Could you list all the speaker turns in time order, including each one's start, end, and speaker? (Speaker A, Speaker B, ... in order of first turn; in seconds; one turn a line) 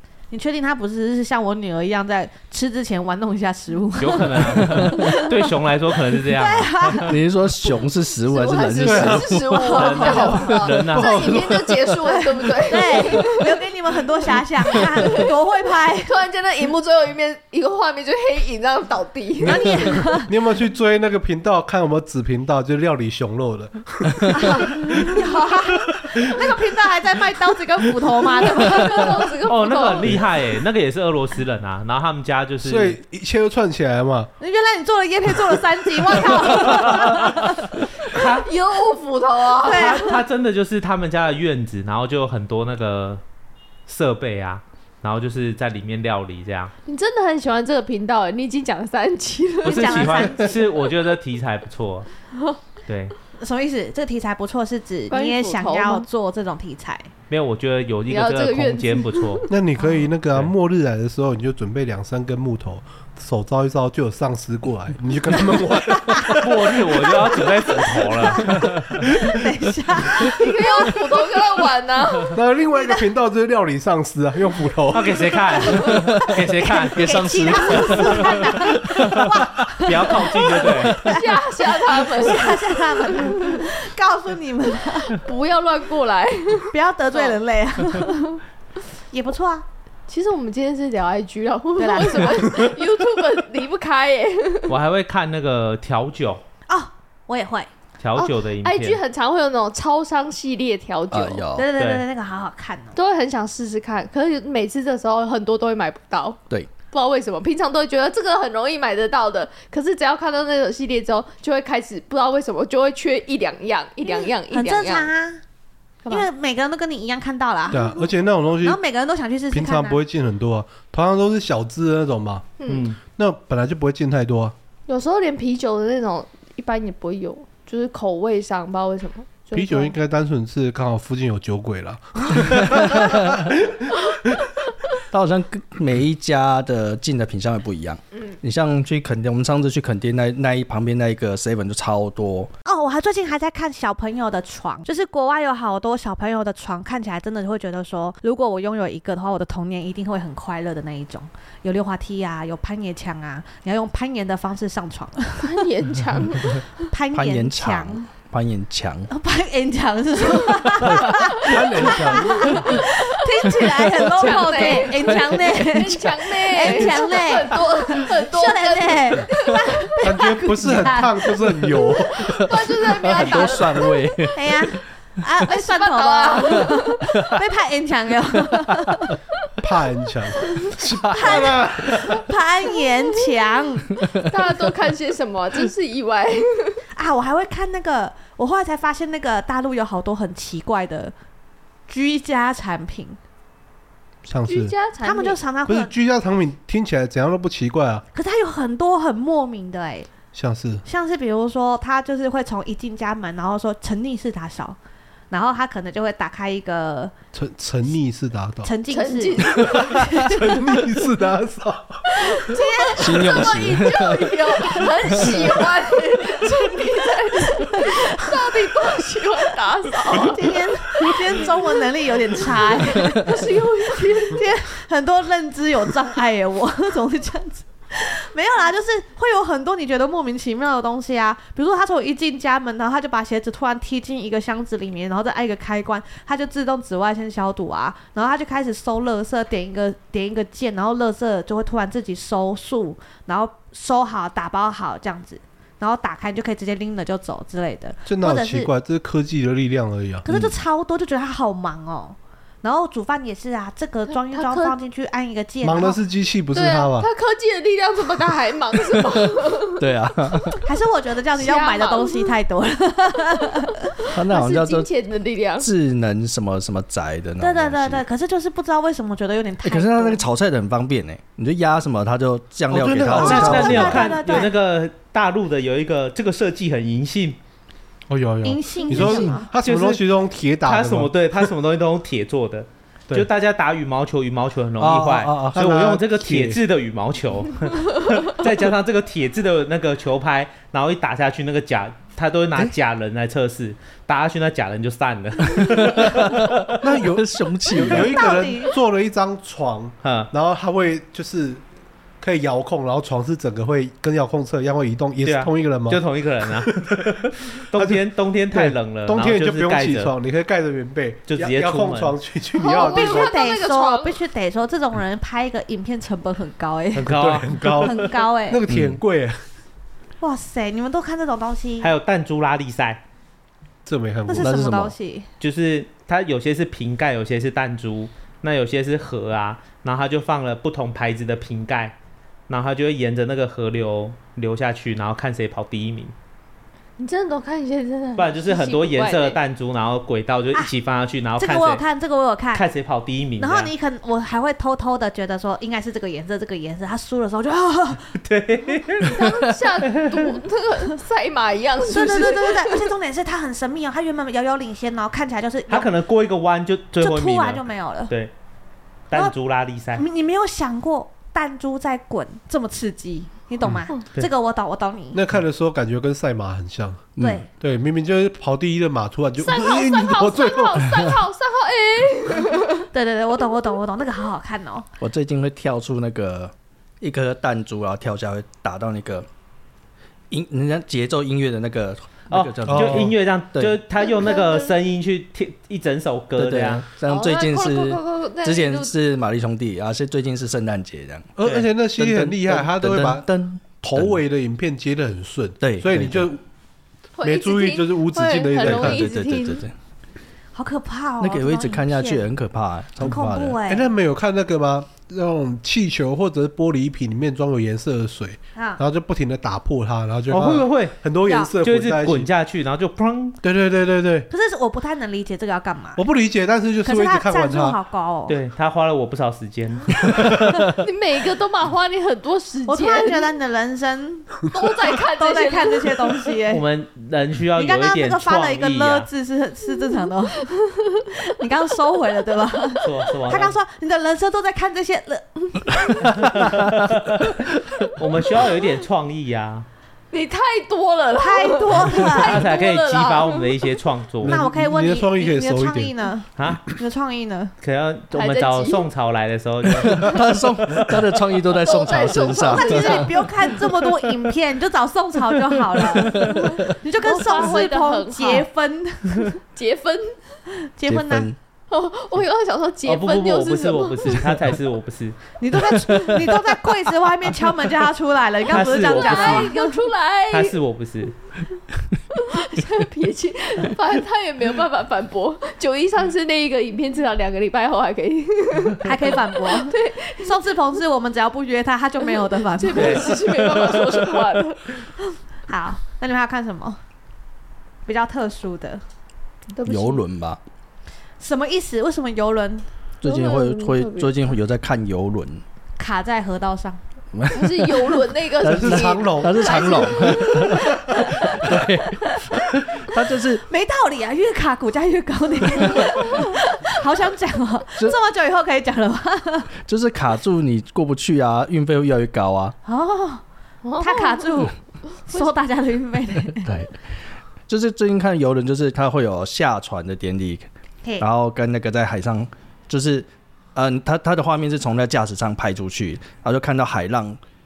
Speaker A: 0.3-5.4
Speaker B: 4.0-7.2
Speaker C: 4.7-4.9
Speaker A: 6.3-7.1
Speaker C: 7.0-9.9
Speaker D: 8.3-13.6
Speaker E: 8.8-11.8
Speaker A: 9.5-10.6
Speaker B: 9.9-11.5
Speaker A: 12.0-16.1
Speaker D: 14.7-15.3
Speaker D: 16.0-20.1
Speaker A: 19.4-20.3
Speaker E: 19.4-25.2
Speaker A: 24.3-29.3
Speaker E: 25.9-26.5
Speaker D: 28.6-30.2
Speaker B: 29.4-33.0
Speaker E: 32.6-34.3
Speaker A: 34.4-37.8
Speaker B: 36.7-37.1
Speaker B: 38.0-38.5
Speaker D: 38.2-40.1
Speaker A: 39.6-40.2
Speaker B: 39.6-43.2
Speaker B: 43.9-46.7
Speaker D: 46.9-50.6
Speaker A: 49.6-50.6
Speaker B: 49.6-52.1
Speaker B: 52.9-53.2
Speaker A: 53.4-57.1
Speaker D: 55.1-56.1
Speaker B: 57.3-59.5
Speaker D: 58.1-59.5
Speaker E: 59.5-67.5
Speaker A: 59.8-60.1
Speaker B: 66.3-68.9
Speaker A: 68.2-71.0
Speaker E: 68.3-69.4
Speaker D: 70.2-72.4
Speaker E: 72.3-75.3
Speaker A: 72.8-73.0
Speaker B: 74.9-78.2
Speaker C: 75.8-79.4
Speaker A: 76.6-85.2
Speaker B: 79.8-81.0
Speaker D: 80.9-83.7
Speaker D: 85.1-87.4
Speaker A: 86.7-88.4
Speaker A: 89.1-89.7
Speaker D: 90.1-94.8
Speaker A: 91.8-92.6
Speaker B: 94.7-96.4
Speaker A: 96.7-97.7
Speaker B: 98.0-99.0
Speaker D: 98.2-101.5
Speaker C: 101.1-101.7
Speaker A: 101.5-103.0
Speaker B: 101.8-102.0
Speaker D: 103.0-115.1
Speaker A: 114.0-115.4
Speaker A: 116.1-118.0
Speaker E: 117.7-118.8
Speaker A: 118.6-120.0
Speaker E: 119.5-122.5
Speaker D: 122.6-122.9
Speaker B: 122.7-123.0
Speaker E: 123.1-124.5
Speaker D: 124.9-129.9
Speaker E: 129.5-134.4
Speaker C: 132.7-133.4
Speaker C: 135.1-142.5
Speaker A: 142.7-155.6
Speaker D: 155.4-156.8
Speaker A: 156.9-158.1
Speaker C: 157.1-159.1
Speaker A: 159.1-171.9
Speaker C: 160.9-161.1
Speaker D: 161.4-170.0
Speaker E: 161.4-162.7
Speaker E: 170.0-172.5
Speaker D: 172.1-174.3
Speaker C: 172.8-174.7
Speaker A: 174.3-179.2
Speaker D: 175.5-177.1
Speaker C: 177.1-177.4
Speaker C: 178.4-178.9
Speaker E: 179.6-182.3
Speaker C: 180.8-181.5
Speaker A: 181.1-183.9
Speaker C: 184.0-184.6
Speaker D: 184.0-186.8
Speaker A: 187.0-191.1
Speaker A: 191.9-193.2
Speaker E: 194.3-194.8
Speaker D: 194.5-195.4
Speaker A: 195.0-195.9
Speaker E: 195.7-198.1
Speaker A: 198.1-200.1
Speaker E: 200.3-200.8
Speaker A: 200.8-204.8
Speaker A: 205.3-207.2
Speaker E: 207.3-208.7
Speaker A: 208.6-210.7
Speaker D: 208.9-210.3
Speaker E: 209.9-212.4
Speaker D: 212.2-221.7
Speaker A: 212.4-213.4
Speaker C: 213.0-215.3
Speaker A: 217.4-218.3
Speaker A: 220.3-223.4
Speaker D: 222.5-224.5
Speaker A: 224.3-248.7
Speaker E: 248.1-250.3
Speaker A: 250.2-256.0
Speaker D: 254.2-254.8
Speaker E: 255.6-257.1
Speaker D: 256.5-259.8
Speaker C: 258.9-260.6
Speaker A: 260.6-264.0
Speaker D: 261.3-262.4
Speaker D: 264.1-265.7
Speaker C: 264.1-264.9
Speaker C: 265.6-268.0
Speaker A: 267.4-270.2
Speaker C: 269.6-274.1
Speaker E: 272.7-274.0
Speaker B: 273.1-277.4
Speaker A: 273.1-274.5
Speaker E: 278.1-281.5
Speaker A: 278.4-279.5
Speaker C: 278.9-279.3
Speaker B: 279.6-280.0
Speaker B: 280.6-296.8
Speaker C: 284.8-285.6
Speaker E: 285.6-286.6
Speaker C: 295.7-296.4
Speaker E: 296.8-301.6
Speaker C: 297.2-298.2
Speaker A: 297.9-298.8
Speaker B: 300.0-300.3
Speaker E: 302.2-306.0
Speaker B: 305.2-310.1
Speaker E: 306.5-307.1
Speaker E: 307.7-313.3
Speaker B: 311.3-312.2
Speaker D: 312.6-314.2
Speaker A: 312.6-318.6
Speaker B: 316.9-318.0
Speaker E: 317.1-319.4
Speaker C: 318.7-319.0
Speaker A: 320.2-321.9
Speaker B: 321.8-323.0
Speaker E: 323.9-324.5
Speaker A: 324.3-325.3
Speaker C: 324.4-324.9
Speaker B: 325.4-332.0
Speaker B: 332.5-336.1
Speaker D: 337.0-339.4
Speaker B: 338.2-341.8
Speaker A: 341.4-342.7
Speaker B: 342.5-343.7
Speaker A: 343.4-348.1
Speaker B: 348.2-350.3
Speaker D: 349.1-352.9
Speaker A: 351.9-355.9
Speaker B: 355.7-358.3
Speaker A: 357.0-358.1
Speaker B: 359.1-360.0
Speaker A: 360.0-365.2
Speaker E: 365.1-371.1
Speaker C: 367.2-367.4
Speaker A: 367.2-367.5
Speaker D: 369.4-372.9
Speaker A: 372.9-374.9
Speaker C: 375.0-379.3
Speaker C: 380.3-383.8
Speaker B: 382.3-386.9
Speaker E: 382.7-383.1
Speaker D: 384.1-384.7
Speaker C: 386.4-394.2
Speaker D: 387.1-388.9
Speaker E: 391.4-393.2
Speaker E: 393.9-396.4
Speaker C: 395.6-396.3
Speaker D: 397.2-399.7
Speaker E: 397.2-399.1
Speaker C: 398.6-399.7
Speaker A: 400.6-402.3
Speaker C: 401.2-403.6
Speaker A: 403.0-403.9
Speaker E: 403.7-412.3
Speaker A: 408.6-408.8
Speaker B: 410.3-411.0
Speaker A: 411.2-411.5
Speaker B: 411.6-413.4
Speaker E: 413.4-414.3
Speaker A: 414.3-416.0
Speaker E: 416.0-417.8
Speaker A: 416.8-418.4
Speaker B: 418.3-420.4
Speaker D: 420.6-423.3
Speaker A: 422.7-426.6
Speaker D: 424.5-426.3
Speaker B: 426.5-429.1
Speaker A: 427.6-430.5
Speaker D: 430.5-431.0
Speaker A: 431.1-436.5
Speaker B: 432.8-433.6
Speaker B: 436.6-439.7
Speaker D: 440.1-443.7
Speaker A: 441.2-442.4
Speaker B: 442.1-444.4
Speaker E: 444.2-445.9
Speaker A: 444.2-447.5
Speaker B: 446.4-446.6
Speaker B: 447.6-450.2
Speaker D: 448.1-448.9
Speaker C: 449.6-453.1
Speaker D: 451.6-453.3
Speaker A: 452.3-459.3
Speaker C: 455.7-456.6
Speaker D: 456.1-458.5
Speaker D: 459.4-460.2
Speaker A: 460.6-461.3
Speaker C: 460.9-461.4
Speaker D: 461.7-464.3
Speaker B: 462.9-465.2
Speaker A: 465.4-469.8
Speaker B: 468.5-469.6
Speaker D: 468.8-470.6
Speaker B: 470.3-471.1
Speaker D: 472.1-480.4
Speaker A: 478.8-483.2
Speaker D: 482.2-484.8
Speaker B: 482.8-484.2
Speaker A: 485.5-486.8
Speaker A: 487.9-488.8
Speaker D: 489.5-490.0
Speaker C: 489.7-490.4
Speaker A: 491.2-492.7
Speaker C: 493.0-495.4
Speaker D: 493.0-494.1
Speaker A: 495.8-496.8
Speaker C: 497.1-503.4
Speaker D: 497.3-501.3
Speaker E: 498.4-500.2
Speaker A: 503.5-509.5
Speaker C: 509.6-512.6
Speaker A: 512.6-513.2
Speaker D: 513.6-514.3
Speaker A: 513.8-516.5
Speaker C: 516.4-516.8
Speaker C: 517.5-520.5
Speaker C: 521.0-527.2